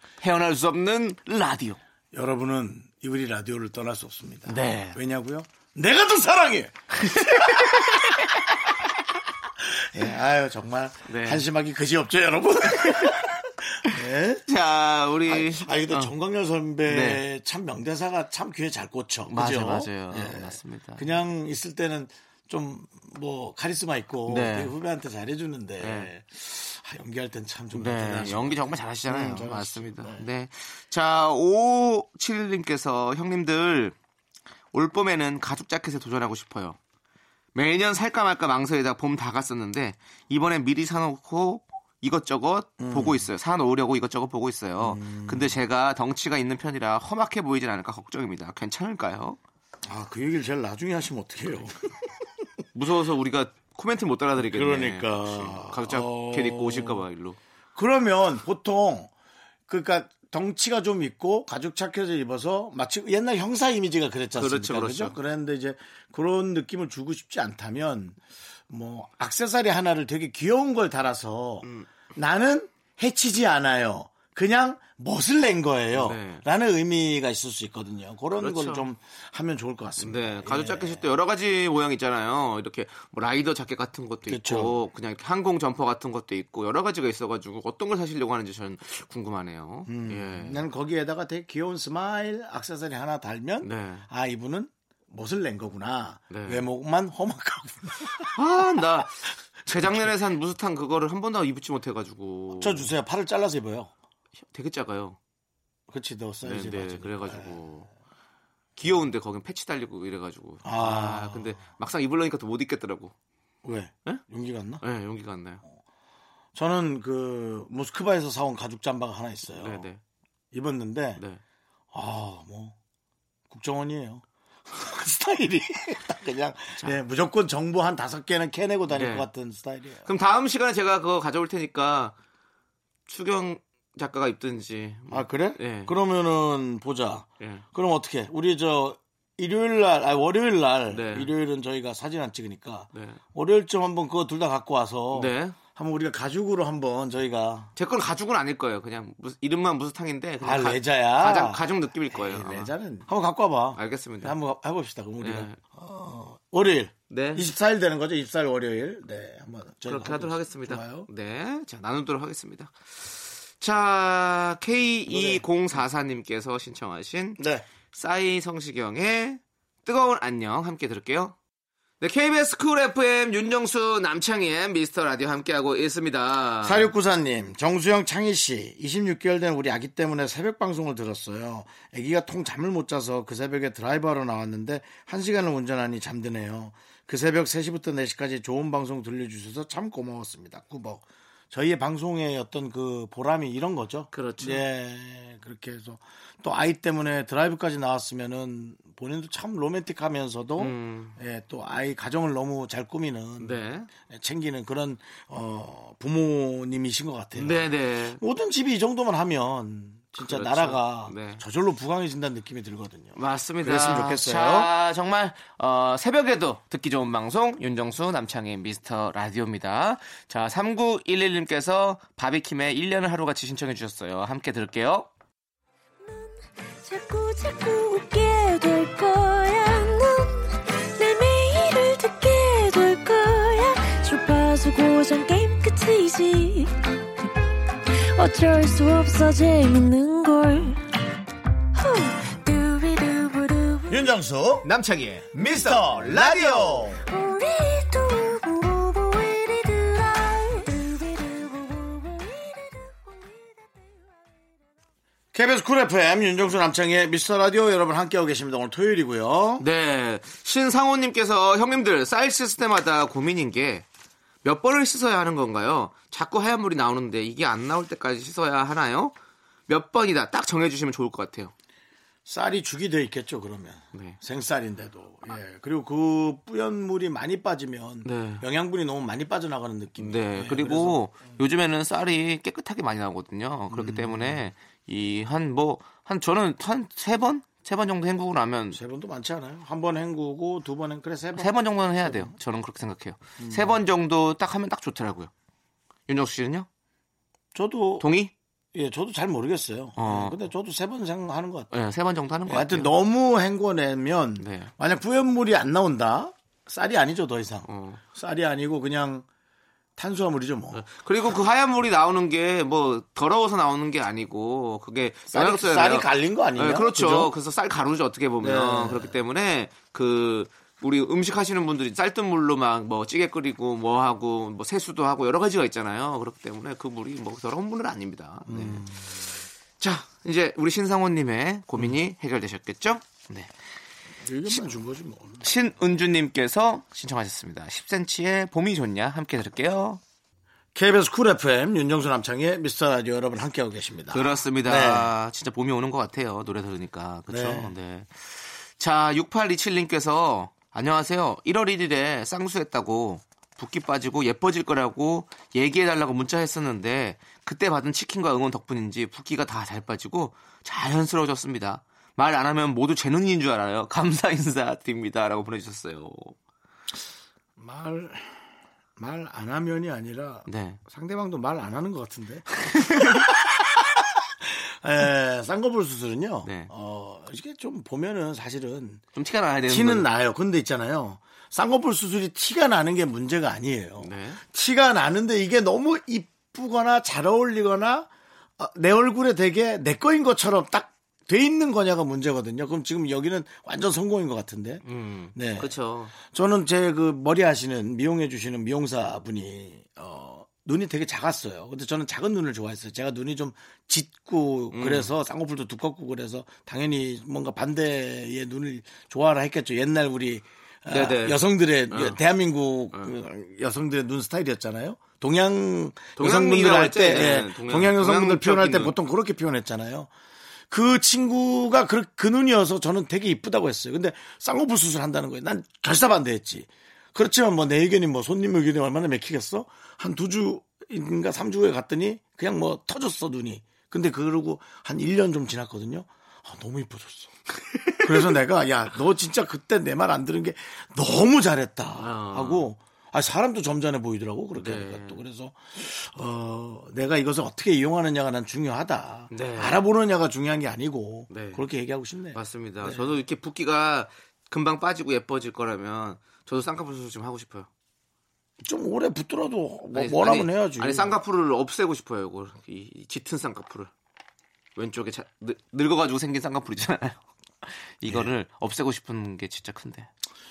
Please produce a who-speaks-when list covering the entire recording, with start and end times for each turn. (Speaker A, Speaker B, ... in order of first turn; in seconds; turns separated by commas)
Speaker A: 0.2-1.8, Speaker B: 2.1-8.4, Speaker A: 4.5-5.0, Speaker A: 7.0-7.6, Speaker B: 9.6-14.4, Speaker A: 11.1-11.4, Speaker A: 12.9-13.2, Speaker A: 14.5-16.1, Speaker B: 15.2-30.2, Speaker A: 16.9-17.2, Speaker A: 19.3-21.1, Speaker A: 24.3-24.7, Speaker A: 25.8-26.1, Speaker A: 27.7-34.0, Speaker A: 34.7-36.8, Speaker A: 37.5-49.4, Speaker B: 42.8-43.3, Speaker B: 44.8-45.6, Speaker B: 49.8-52.1, Speaker A: 52.7-57.4, Speaker B: 54.4-57.0, Speaker B: 57.8-59.1, Speaker B: 59.7-81.0, Speaker A: 64.3-65.2, Speaker A: 71.6-71.9, Speaker A: 75.9-76.4, Speaker A: 78.4-78.9, Speaker A: 80.0-90.6, Speaker B: 84.3-84.8, Speaker B: 89.9-98.4, Speaker A: 93.6-94.1, Speaker A: 96.3-96.6, Speaker A: 98.3-102.9, Speaker B: 99.7-100.1, Speaker B: 102.6-103.9, Speaker A: 104.5-105.2, Speaker B: 105.9-107.6, Speaker A: 106.4-107.9, Speaker A: 108.8-113.1, Speaker B: 110.6-111.6, Speaker B: 113.6-114.8, Speaker A: 114.8-115.6, Speaker B: 116.5-119.9, Speaker A: 119.5-120.0, Speaker B: 120.5-121.2, Speaker B: 121.9-122.8, Speaker B: 123.5-130.1, Speaker A: 128.9-129.3, Speaker A: 130.1-132.2, Speaker A: 133.1-135.9, Speaker B: 135.1-147.7, Speaker A: 140.9-141.3, Speaker A: 142.9-143.2, Speaker A: 145.1-145.6, Speaker A: 147.8-152.7, Speaker B: 150.4-161.1, Speaker A: 153.8-154.4, Speaker A: 155.2-155.6, Speaker A: 157.1-157.5, Speaker A: 159.8-167.4, Speaker B: 165.1-165.4, Speaker B: 167.4-167.7, Speaker A: 167.9-171.4, Speaker A: 172.0-176.9, Speaker B: 176.6-214.7, Speaker A: 194.1-194.7, Speaker A: 200.6-201.2, Speaker A: 203.4-203.9, Speaker A: 207.4-208.2, Speaker A: 210.2-211.4, Speaker A: 213.2-225.1, Speaker C: 226.0-236.8, Speaker C: 237.9-240.8, Speaker C: 241.7-244.1, Speaker B: 243.9-244.7, Speaker A: 244.6-246.9, Speaker B: 245.3-247.0, Speaker C: 247.1-254.1, Speaker B: 255.3-259.6, Speaker A: 259.6-263.9, Speaker A: 264.4-269.1, Speaker A: 269.7-271.5, Speaker B: 272.3-281.0, Speaker A: 278.0-278.4, Speaker A: 280.0-288.8, Speaker B: 283.7-284.4, Speaker B: 288.7-292.3, Speaker A: 291.4-295.3, Speaker B: 293.4-293.8, Speaker A: 296.1-296.7, Speaker B: 297.5-298.1, Speaker A: 298.0-298.3, Speaker B: 298.7-301.7, Speaker A: 300.0-300.4, Speaker A: 301.7-302.9, Speaker B: 302.5-309.3, Speaker A: 304.4-304.7, Speaker A: 307.7-308.0, Speaker B: 310.0-310.8, Speaker A: 310.7-328.9, Speaker B: 315.3-317.3, Speaker B: 318.4-319.1, Speaker B: 328.5-329.4, Speaker A: 329.8-333.5, Speaker B: 334.2-335.5, Speaker A: 335.4-340.0, Speaker B: 340.8-345.1, Speaker A: 344.1-366.4, Speaker B: 347.3-347.7, Speaker B: 367.6-379.0, Speaker A: 370.5-370.8, Speaker A: 372.6-373.3, Speaker A: 376.4-376.7, Speaker A: 379.1-380.1, Speaker B: 379.7-394.8, Speaker A: 384.0-384.4, Speaker A: 394.9-396.1, Speaker B: 395.3-420.1, Speaker A: 404.7-405.1, Speaker A: 410.9-412.2, Speaker A: 416.2-419.0, Speaker B: 420.7-437.4, Speaker B: 438.0-453.1, Speaker A: 442.0-442.7, Speaker A: 444.6-445.2, Speaker A: 449.3-449.8, Speaker A: 451.3-451.6, Speaker A: 452.3-457.7, Speaker B: 458.6-461.1, Speaker A: 459.9-463.9, Speaker A: 464.8-470.1, Speaker B: 468.1-468.3